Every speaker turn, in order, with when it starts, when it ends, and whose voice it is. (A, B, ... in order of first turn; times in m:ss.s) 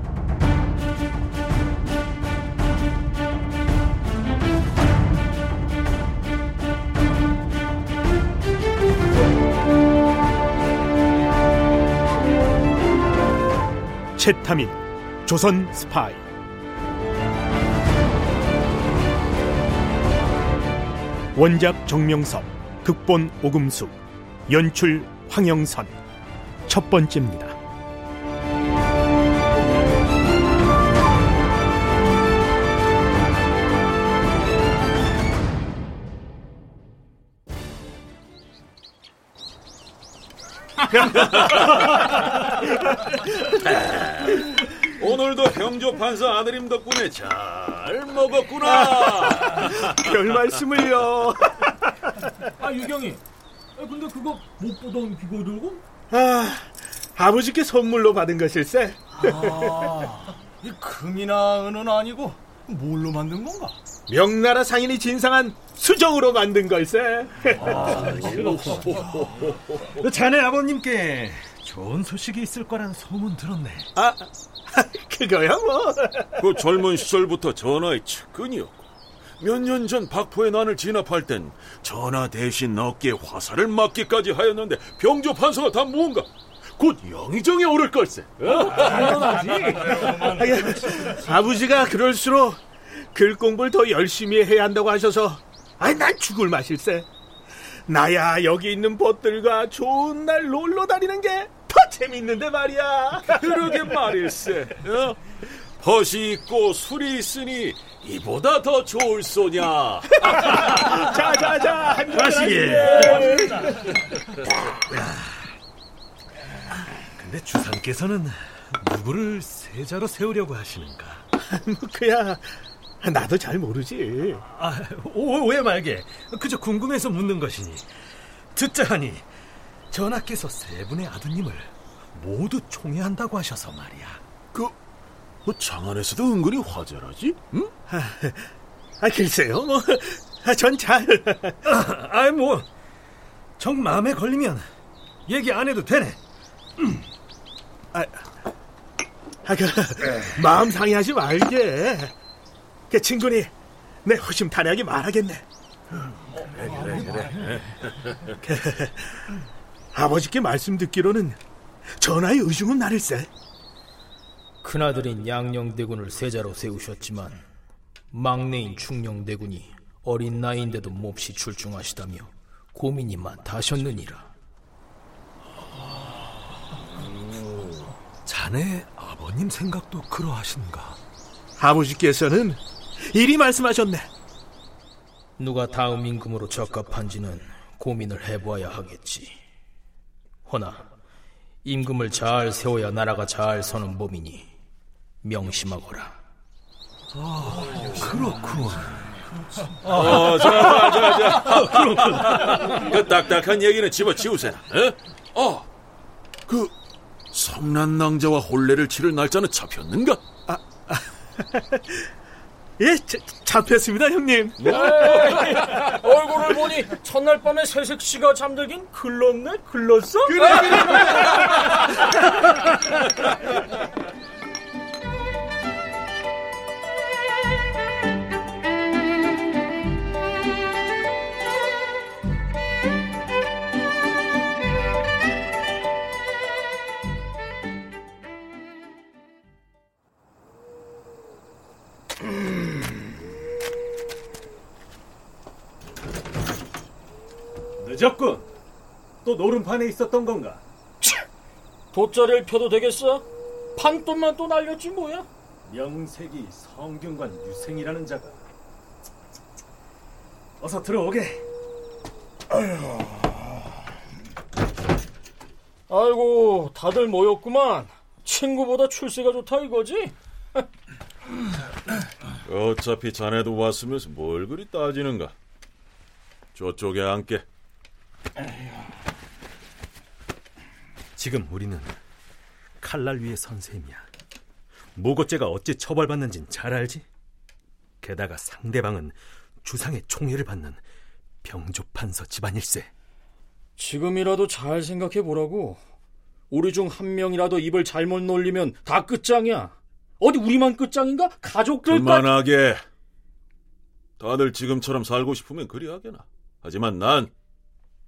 0:14.2-0:16.2 A
0:21.3-0:24.0 A
0:24.5-0:26.0 A
0:26.7-0:27.6 A
0:40.9-0:42.4 B
0:43.7-0:49.9 B
0:48.6-0:52.2 A
0:52.6-0:53.2 C
0:53.8-0:55.8 C
0:56.1-1:00.1 A
1:00.1-1:03.8 C
1:04.1-1:08.1 A
1:07.6-1:08.7 D
1:08.0-1:10.0 B
1:10.0-1:13.9 D
1:14.0-1:16.4 A
1:16.4-1:18.9 B
1:19.4-1:30.1 B
1:30.0-1:37.1 A
1:37.9-1:43.8 A
1:43.2-1:45.2 B
1:45.8-1:51.1 B
1:51.0-1:53.3 A
1:52.2-1:53.7 D
1:54.8-1:55.4 D
1:57.2-2:01.2 D
2:01.4-2:04.4 A
2:04.5-2:07.9 D
2:08.5-2:09.2 D
2:09.9-2:14.2 D
2:15.4-2:17.7 B
2:17.9-2:21.6 A
2:21.6-2:22.7 D
2:23.6-2:24.7 D
2:25.3-2:26.2 D
2:27.9-2:28.3 A
2:29.4-2:32.1 A
2:32.9-2:33.5 A
2:34.0-2:35.4 A
2:36.8-2:37.4 B
2:38.4-2:39.3 A
2:39.9-2:41.4 A
2:42.0-2:43.3 A
2:44.6-2:47.4 E
2:48.1-2:54.3 E
2:58.2-3:01.0 D
3:01.6-3:04.1 A
3:05.4-3:09.4 E
3:10.4-3:10.8 E
3:11.6-3:14.5 E
3:15.2-3:16.2 E
3:17.1-3:18.9 D
3:19.8-3:20.9 D
3:19.9-3:25.7 B
3:21.5-3:22.8 D
3:26.5-3:26.7 B
3:27.3-3:30.2 B
3:30.5-3:32.0 A
3:32.8-3:34.8 A
3:34.6-3:35.6 B
3:34.7-3:41.7 C
4:07.8-4:08.5 D
4:09.2-4:10.6 D
4:11.9-4:13.2 C
4:13.8-4:15.2 C
4:15.6-4:18.4 D
4:20.6-4:21.4 D
4:25.9-4:30.1 C
4:32.4-4:35.3 B
4:36.5-4:37.4 B
4:41.2-4:42.0 D
4:42.8-4:44.0 D
4:44.9-4:47.0 D
4:48.0-4:50.8 D
4:51.4-4:52.9 D
4:53.8-4:55.8 C
4:56.5-5:02.3 C
5:01.8-5:02.8 B
5:04.2-5:07.3 B